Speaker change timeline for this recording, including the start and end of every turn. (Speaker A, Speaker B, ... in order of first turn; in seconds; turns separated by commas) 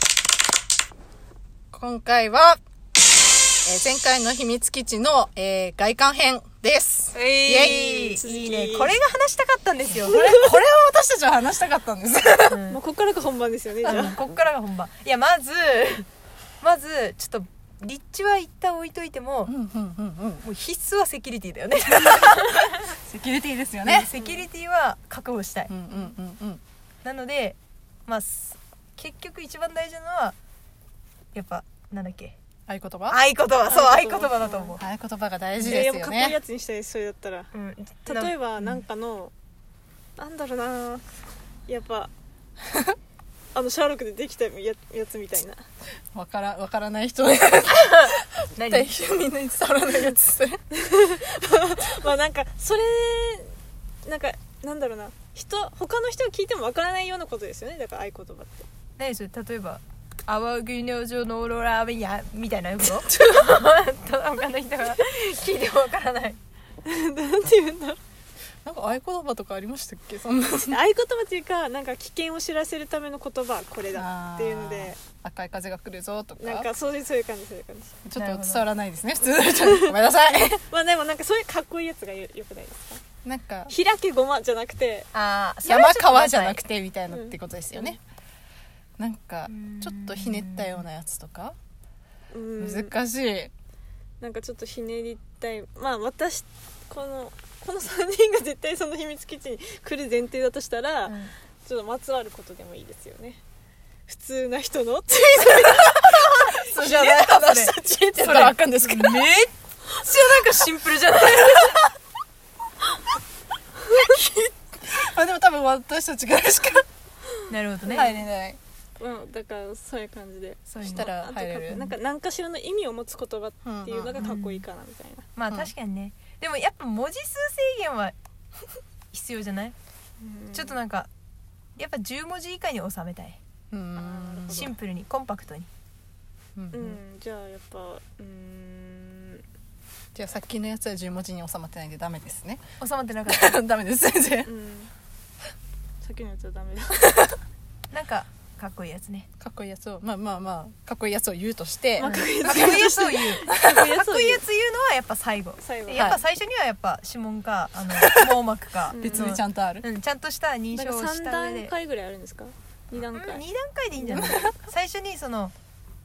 Speaker A: 1.7-2.6, Speaker A: 3.6-8.2, Speaker B: 7.1-10.5, Speaker C: 7.7-8.9, Speaker A: 10.0-12.6, Speaker B: 12.5-12.8, Speaker C: 12.7-14.2, Speaker B: 13.8-16.1, Speaker B: 16.6-19.5, Speaker A: 19.5-20.4, Speaker B: 20.4-23.0, Speaker A: 22.9-24.1, Speaker B: 23.8-25.7, Speaker C: 24.2-24.5, Speaker A: 25.7-26.6, Speaker B: 27.0-30.4, Speaker B: 31.4-32.4, Speaker A: 32.7-33.2, Speaker B: 33.1-34.8, Speaker C: 33.7-34.8, Speaker A: 34.8-36.4, Speaker C: 35.6-37.5, Speaker B: 37.5-38.8, Speaker C: 38.1-39.3, Speaker C: 40.2-41.1, Speaker C: 41.7-42.1, Speaker C: 43.5-45.6, Speaker A: 46.1-50.6, Speaker B: 47.7-48.9, Speaker C: 50.7-58.7, Speaker B: 59.0-66.4, Speaker C: 66.8-68.0, Speaker A: 68.7-70.8, Speaker C: 70.7-75.0, Speaker A: 73.9-76.7, Speaker C: 76.4-78.0, Speaker A: 78.0-80.6, Speaker B: 78.2-78.7, Speaker C: 79.6-79.9, Speaker C: 80.7-83.0, Speaker A: 83.2-83.7, Speaker C: 83.7-85.1, Speaker B: 85.1-86.6, Speaker A: 85.6-88.0, Speaker C: 87.1-88.0, Speaker A: 89.0-91.6, Speaker B: 89.5-90.8, Speaker C: 92.3-92.9, Speaker A: 92.6-93.5, Speaker C: 94.2-103.4, Speaker B: 101.1-101.3, Speaker C: 104.1-106.7, Speaker B: 105.4-111.9, Speaker A: 106.6-109.3, Speaker A: 114.8-116.9, Speaker B: 117.5-118.2, Speaker A: 117.9-118.6, Speaker C: 119.0-125.3, Speaker B: 120.7-121.2, Speaker A: 120.8-121.8, Speaker A: 123.7-124.2, Speaker B: 124.2-124.7, Speaker B: 125.4-128.2, Speaker B: 129.1-129.8, Speaker C: 130.2-130.8, Speaker B: 130.5-131.1, Speaker B: 131.8-133.4, Speaker A: 133.7-134.7, Speaker C: 133.9-134.7, Speaker B: 134.5-135.7, Speaker A: 136.6-137.0, Speaker C: 136.7-139.4, Speaker A: 140.2-142.6, Speaker B: 142.8-143.6, Speaker A: 143.3-144.5, Speaker C: 144.4-144.9, Speaker C: 146.0-147.2, Speaker B: 147.9-149.3, Speaker A: 149.4-153.8, Speaker C: 152.0-154.4, Speaker B: 152.0-161.7, Speaker C: 155.6-156.2, Speaker A: 157.9-158.3, Speaker C: 158.9-159.4, Speaker A: 159.0-159.9, Speaker C: 160.8-163.4, Speaker B: 163.1-165.5, Speaker C: 164.0-164.5, Speaker A: 164.2-164.5